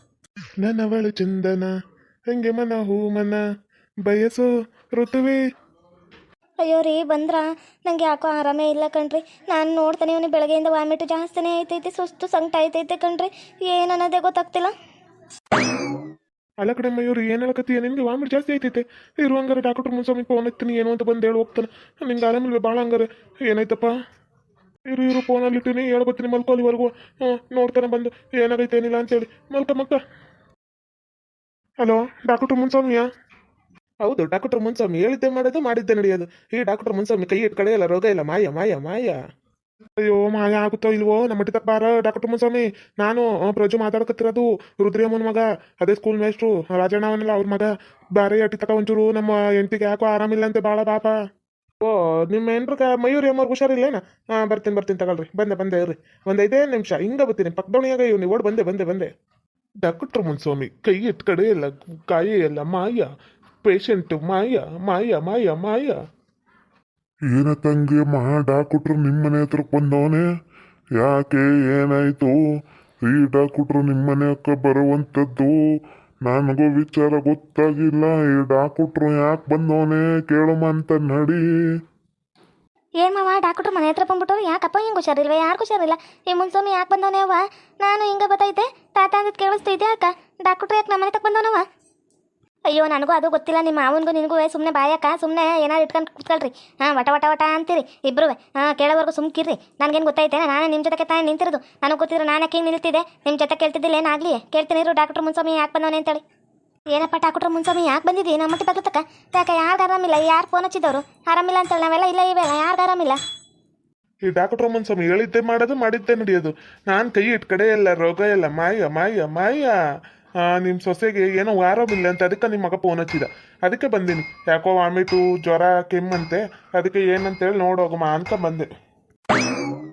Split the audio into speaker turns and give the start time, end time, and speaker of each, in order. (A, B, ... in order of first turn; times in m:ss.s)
0:00.6-0:01.8 A
0:02.3-0:03.4 A
0:04.0-0:05.4 A
0:06.6-0:14.7 B
0:16.6-0:23.9 A
0:24.9-0:30.0 A
0:31.8-0:33.1 A
0:34.0-0:39.2 A
0:40.0-0:51.2 A
0:51.8-0:59.1 A
0:59.8-1:03.1 A
1:03.6-1:06.0 A
1:07.3-1:10.3 C
1:11.0-1:12.4 C
1:13.0-1:15.6 C
1:16.2-1:21.4 C
1:23.0-1:31.6 B
1:32.7-1:46.2 B
1:46.9-1:53.2 B
1:54.3-1:59.8 A
2:00.4-2:08.7 A